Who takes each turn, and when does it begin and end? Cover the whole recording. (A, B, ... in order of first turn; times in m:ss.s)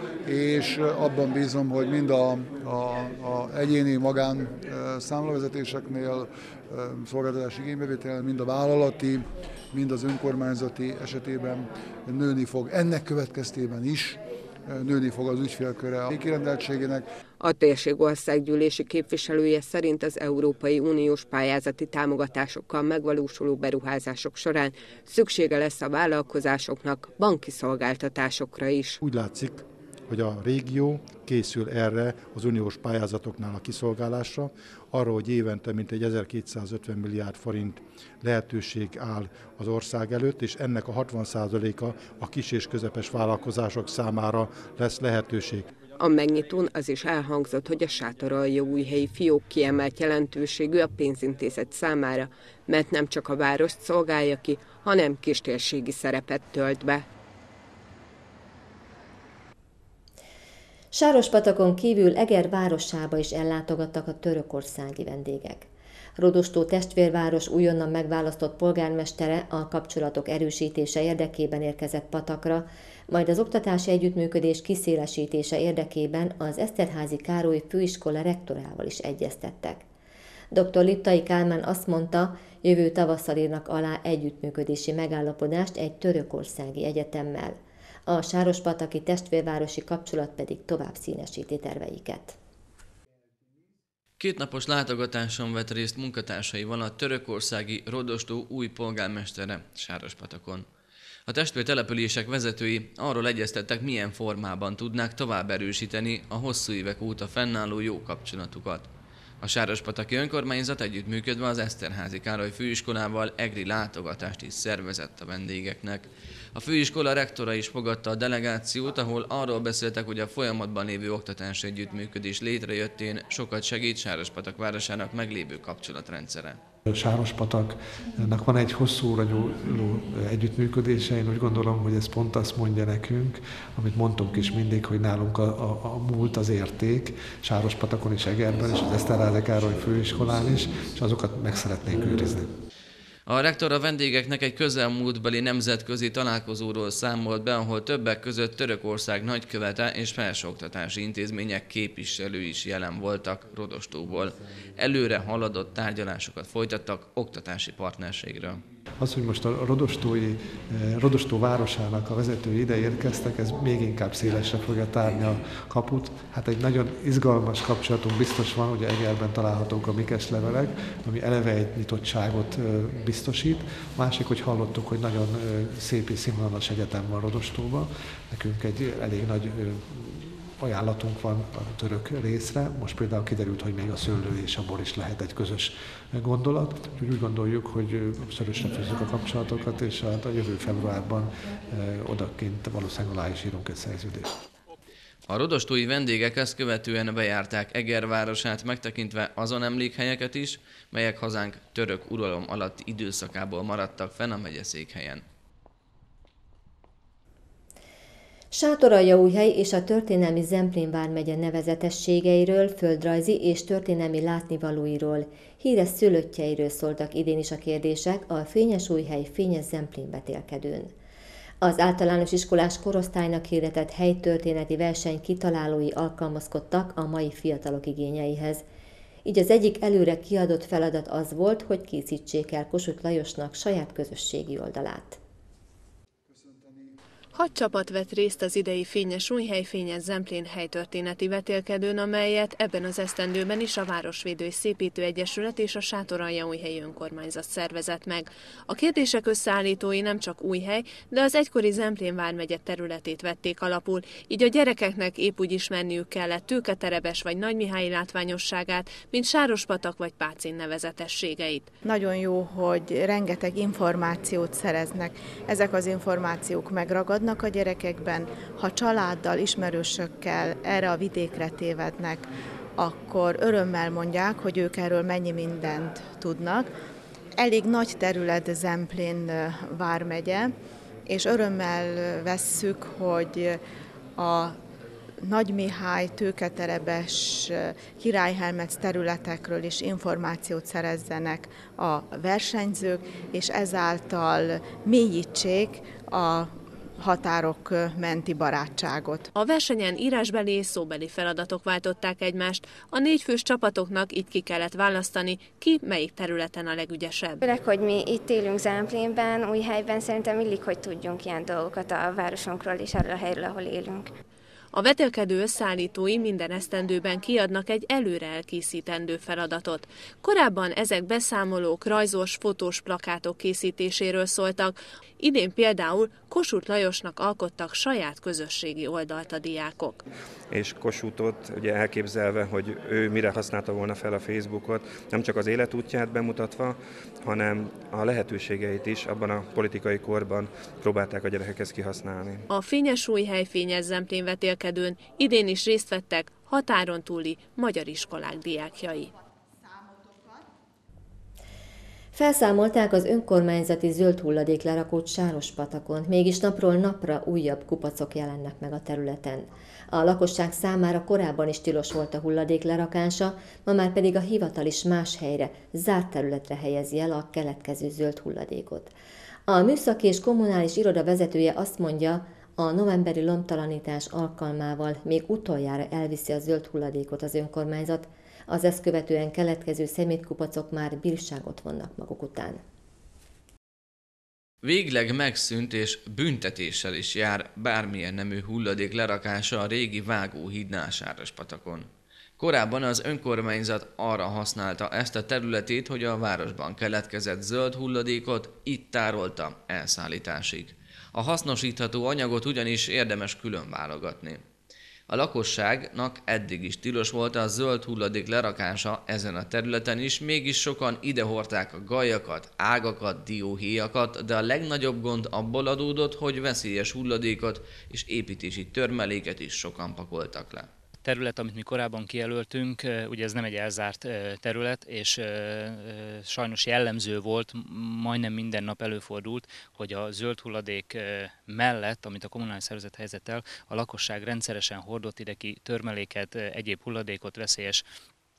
0:00.2-0:17.0 A
0:17.4-0:28.9 B
0:29.0-0:45.7 C
0:46.0-0:57.0 B
1:00.9-1:05.7 D
1:06.2-1:19.8 D
1:20.5-1:27.6 D
1:28.1-1:32.4 D
1:34.2-1:40.6 E
1:41.3-1:48.9 E
1:49.4-2:06.6 E
2:06.9-2:22.5 F
2:23.3-2:38.6 E
2:39.0-3:14.3 F
3:15.3-3:25.2 E
3:28.5-3:40.9 D
3:41.6-3:48.6 D
3:49.2-3:55.2 D
3:56.3-3:56.9 A
3:57.3-4:21.7 G
4:21.8-4:36.7 H
4:37.4-4:40.5 H
4:41.1-4:43.6 H
4:44.2-4:44.5 H
4:45.2-4:56.5 H
4:57.0-4:59.2 H
4:59.3-5:07.4 G
5:07.4-5:14.1 I
5:14.7-5:30.0 G
5:30.5-5:42.4 J
5:42.5-5:49.1 G
5:52.1-6:08.9 D
6:09.5-6:22.6 D
6:24.6-6:31.8 E
6:32.4-6:44.4 E
6:45.1-7:00.7 E
7:01.0-7:17.8 K